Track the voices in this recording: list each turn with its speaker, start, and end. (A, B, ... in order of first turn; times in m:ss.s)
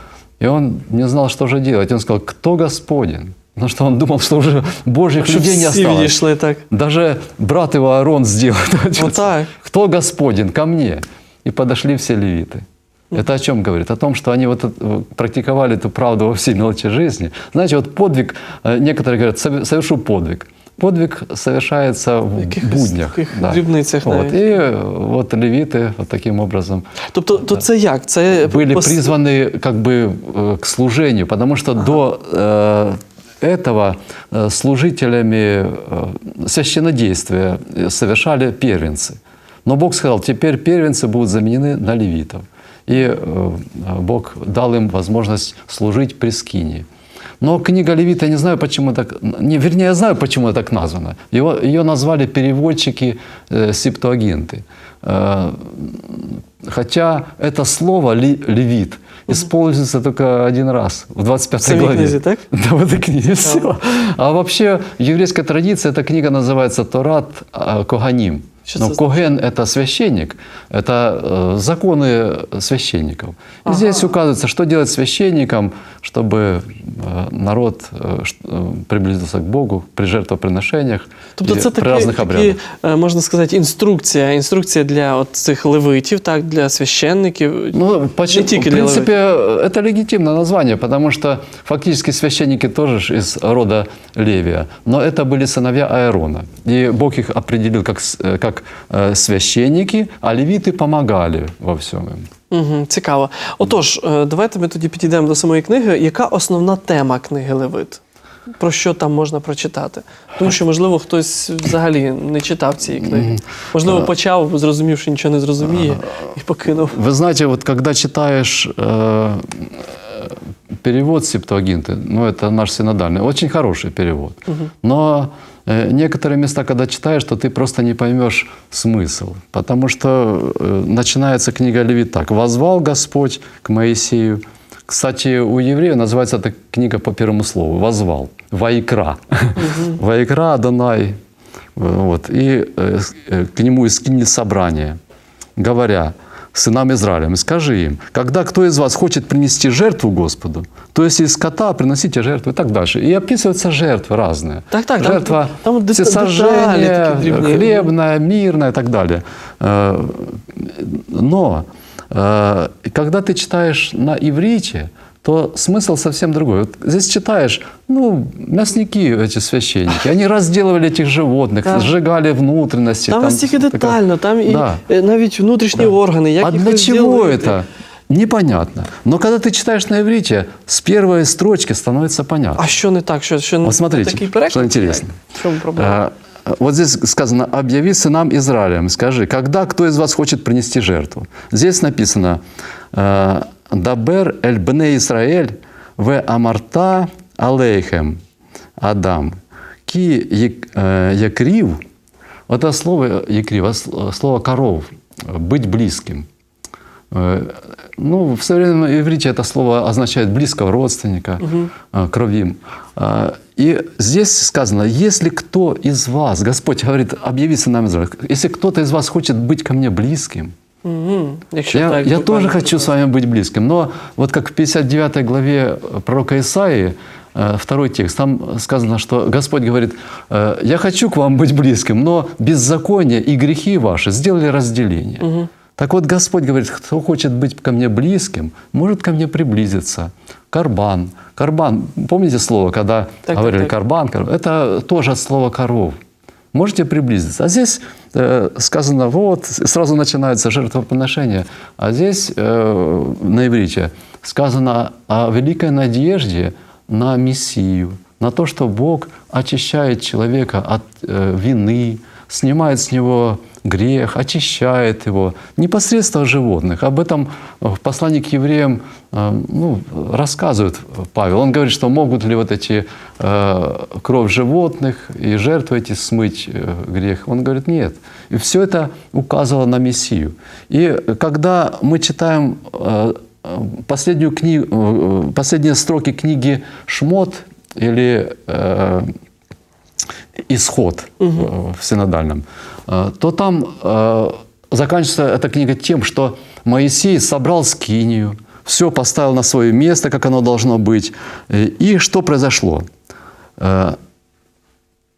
0:00.4-0:06.2 A
0:05.2-0:06.6 B
0:06.7-0:26.8 A
0:09.0-0:09.5 B
0:22.4-0:24.4 B
0:27.1-0:29.1 B
0:28.4-0:46.8 A
0:47.4-1:22.6 A
1:01.6-1:02.4 B
1:08.6-1:09.2 B
1:13.6-1:14.1 B
1:21.4-1:29.1 B
1:27.7-1:42.3 A
1:42.5-1:48.0 B
1:48.6-1:57.0 B
1:53.1-1:54.1 A
1:55.6-1:56.0 A
1:56.9-2:21.2 A
2:19.6-2:20.0 B
2:21.8-2:25.0 A
2:25.6-2:54.8 A
2:34.7-2:37.9 B
2:51.6-2:51.9 B
2:53.1-2:57.6 B
2:56.4-3:02.6 A
3:02.6-3:06.0 B
3:03.6-3:05.1 A
3:05.7-3:12.4 A
3:12.9-3:18.2 A
3:18.8-3:21.8 A
3:22.5-3:26.3 A
3:27.1-3:40.5 A
3:31.4-3:31.7 B
3:40.8-3:42.9 B
3:41.7-4:06.0 A
3:55.2-3:55.5 B
4:03.3-4:03.7 B
4:06.5-4:49.0 A
4:50.5-5:02.8 A
4:51.2-4:51.5 B
5:03.6-5:04.0 A